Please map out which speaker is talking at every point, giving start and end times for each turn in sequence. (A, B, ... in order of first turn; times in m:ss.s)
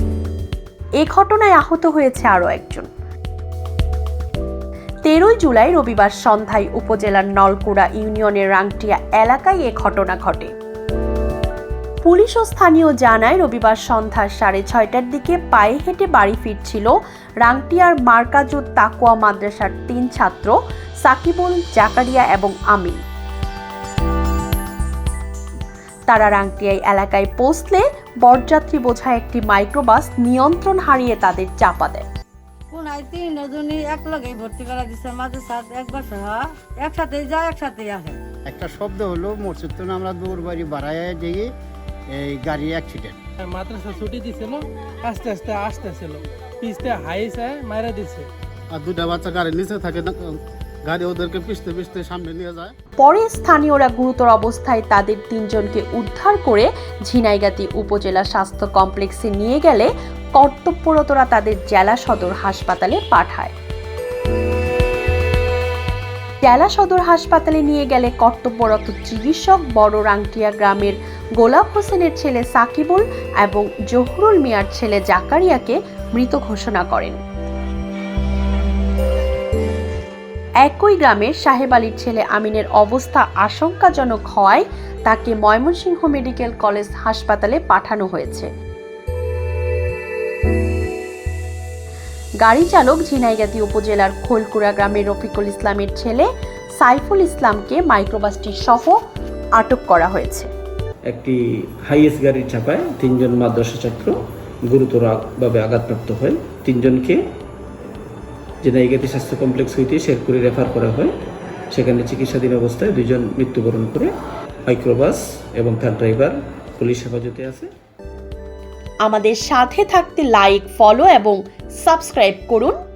0:01.0-0:02.9 A
0:05.0-0:10.5 A
0:12.0-0:23.0 A
0:26.1-0:32.0 A
0:32.7-0:38.2 B
0:38.5-0:41.5 C
0:42.1-0:43.2 C
0:43.4-0:48.3 D
0:48.7-0:50.1 E
0:50.9-0:52.7 E
0:53.0-1:03.5 A
1:06.4-1:17.2 A
1:20.6-1:28.5 A
1:32.4-1:39.0 A
1:39.6-1:40.5 A
1:41.1-1:47.2 F
1:48.6-1:51.1 F
1:51.7-1:54.1 F
1:54.7-1:57.7 F
1:59.0-2:02.8 A